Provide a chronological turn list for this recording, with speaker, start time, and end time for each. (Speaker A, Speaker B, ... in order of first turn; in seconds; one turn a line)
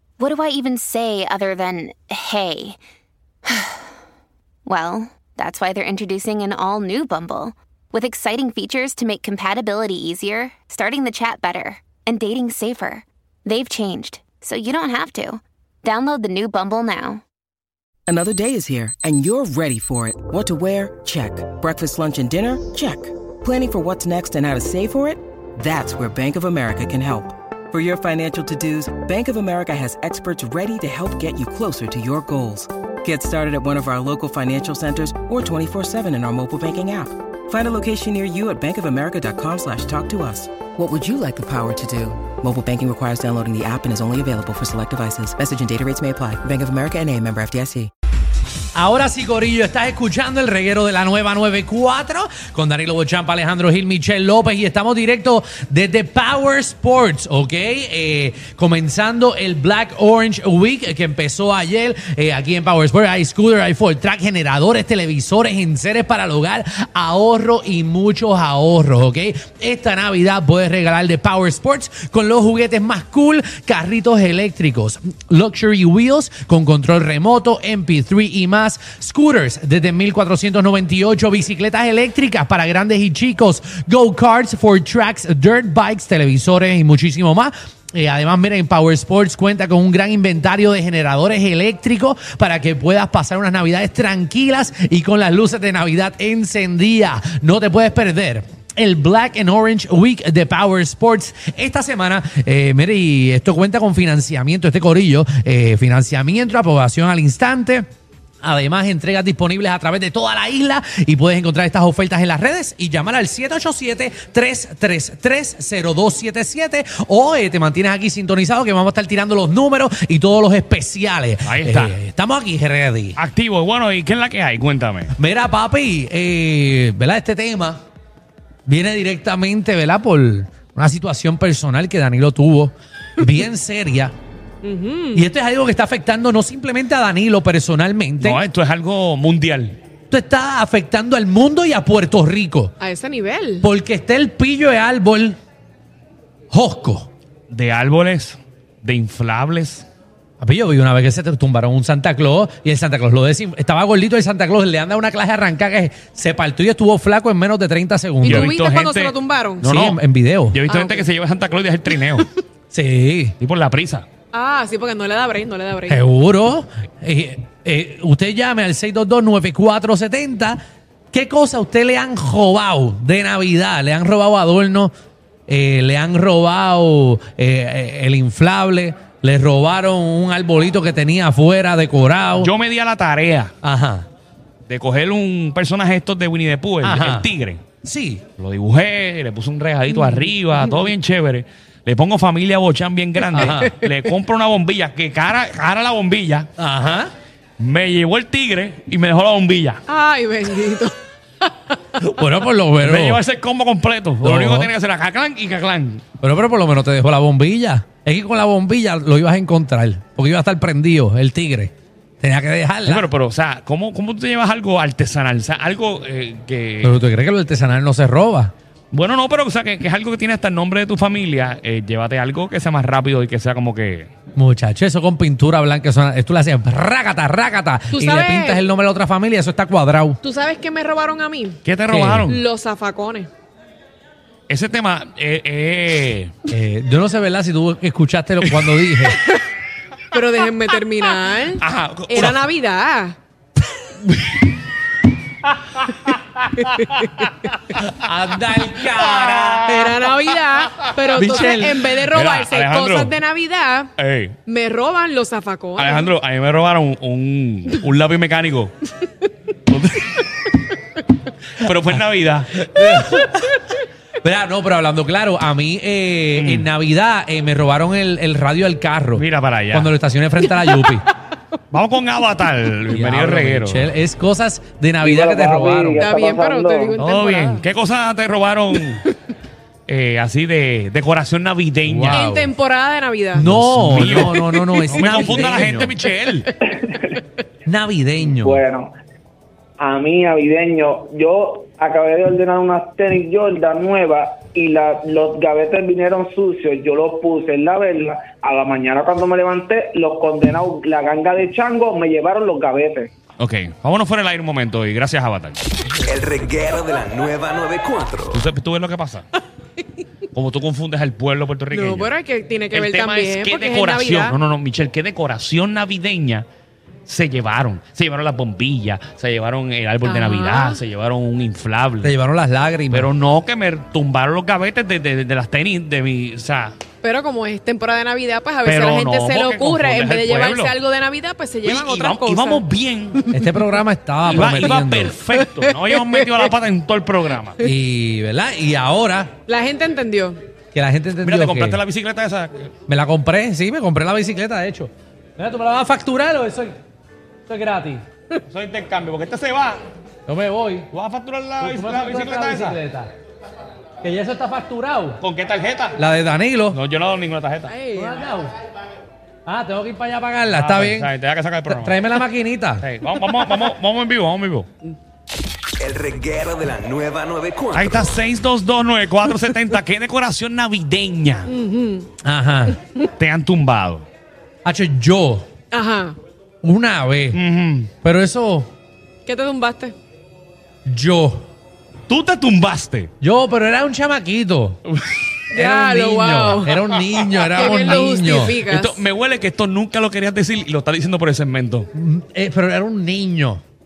Speaker A: 0.2-2.8
Speaker A: 3.5-3.9
Speaker A: 4.7-17.2
Speaker B: 18.1-47.9
Speaker C: 48.7-107.9
Speaker C: 108.4-123.2
Speaker D: 121.5-122.0
Speaker D: 123.2-125.1
Speaker C: 125.1-127.8
Speaker C: 128.7-134.2
Speaker E: 134.6-135.2
Speaker C: 135.1-138.4
Speaker D: 138.2-139.8
Speaker C: 140.1-142.7
Speaker E: 142.8-143.7
Speaker C: 143.6-145.4
Speaker C: 146.5-147.1
Speaker D: 147.5-149.9
Speaker C: 150.4-158.5
Speaker E: 158.2-159.7
Speaker D: 158.2-160.0
Speaker C: 159.6-160.6
Speaker D: 160.5-162.3
Speaker E: 160.7-161.1
Speaker E: 161.9-162.2
Speaker C: 162.7-163.4
Speaker D: 163.4-164.1
Speaker E: 164.3-166.1
Speaker C: 165.9-170.6
Speaker C: 171.1-174.9
Speaker C: 175.5-182.5
Speaker D: 182.4-183.5
Speaker C: 183.6-184.1
Speaker D: 184.7-187.6
Speaker C: 186.8-187.3
Speaker C: 187.8-188.2
Speaker D: 188.4-196.5
Speaker E: 189.9-190.8
Speaker E: 193.3-193.9
Speaker C: 193.3-193.8
Speaker C: 196.6-197.1
Speaker D: 197.6-199.8
Speaker E: 199.9-201.8
Speaker C: 202.0-203.2
Speaker D: 202.8-206.0
Speaker C: 204.2-204.7
Speaker C: 206.2-213.1
Speaker D: 212.8-217.0
Speaker C: 216.8-218.5
Speaker D: 218.9-224.1
Speaker C: 224.3-230.2
Speaker E: 227.9-228.7
Speaker E: 230.2-231.6
Speaker D: 231.7-232.4
Speaker C: 231.9-232.3
Speaker E: 232.2-233.3
Speaker D: 234.5-236.3
Speaker C: 236.5-239.2
Speaker D: 238.4-239.1
Speaker E: 240.1-243.2
Speaker D: 241.6-242.4
Speaker D: 244.1-244.6
Speaker D: 245.8-246.1
Speaker E: 246.1-247.1
Speaker D: 246.9-250.0
Speaker C: 247.9-249.9
Speaker E: 249.7-253.9
Speaker D: 250.8-253.2
Speaker C: 251.2-251.6
Speaker D: 254.0-254.4
Speaker E: 254.4-256.1
Speaker D: 255.8-258.8
Speaker D: 259.7-260.3
Speaker D: 261.5-262.7
Speaker C: 262.7-263.5
Speaker E: 262.8-263.6
Speaker C: 264.2-271.1
Speaker D: 266.4-266.7
Speaker D: 269.2-269.9
Speaker E: 270.4-271.1
Speaker D: 271.7-273.9
Speaker C: 272.9-276.0
Speaker F: 275.0-277.0
Speaker E: 276.0-277.6
Speaker D: 277.0-279.1
Speaker D: 279.9-282.2
Speaker C: 281.8-282.5
Speaker E: 282.1-283.5
Speaker C: 283.3-285.9
Speaker D: 283.4-286.5
Speaker E: 284.1-285.6
Speaker C: 287.7-288.6
Speaker F: 288.2-288.9
Speaker F: 289.8-303.1
Speaker D: 303.4-305.7
Speaker G: 306.1-308.4
Speaker D: 308.3-309.3
Speaker D: 310.3-312.1
Speaker E: 311.7-314.4
Speaker D: 312.7-316.5
Speaker D: 317.1-322.1
Speaker E: 320.0-320.8
Speaker C: 322.0-323.1
Speaker D: 322.9-326.8
Speaker E: 327.0-332.6
Speaker D: 328.6-330.7
Speaker D: 331.6-333.2
Speaker E: 333.1-333.8
Speaker C: 333.3-335.2
Speaker E: 334.3-336.5
Speaker D: 334.3-337.6
Speaker C: 337.6-339.3
Speaker E: 339.5-340.4
Speaker C: 340.7-341.8
Speaker D: 341.2-342.7
Speaker C: 342.9-346.8
Speaker C: 347.5-348.0
Speaker D: 348.5-349.8
Speaker C: 350.3-350.9
Speaker D: 350.9-352.8
Speaker C: 351.6-353.1
Speaker C: 354.0-355.2
Speaker D: 355.2-356.0
Speaker C: 356.0-356.8
Speaker D: 356.7-357.7
Speaker E: 357.7-358.3
Speaker C: 357.9-358.5
Speaker C: 359.5-361.1
Speaker D: 360.5-362.1
Speaker C: 361.7-362.9
Speaker D: 362.8-364.7
Speaker G: 365.8-368.1
Speaker D: 367.7-371.5
Speaker E: 371.5-372.1
Speaker C: 372.2-372.8
Speaker D: 373.2-374.1
Speaker C: 374.6-375.5
Speaker E: 375.7-376.2
Speaker C: 376.6-377.4
Speaker D: 377.3-377.9
Speaker C: 378.0-378.7
Speaker E: 379.2-379.9
Speaker C: 380.9-381.5
Speaker D: 382.1-383.1
Speaker C: 383.2-384.8
Speaker D: 384.9-385.2
Speaker E: 385.5-386.8
Speaker C: 385.5-388.6
Speaker D: 386.8-391.9
Speaker E: 387.5-389.1
Speaker C: 391.9-393.6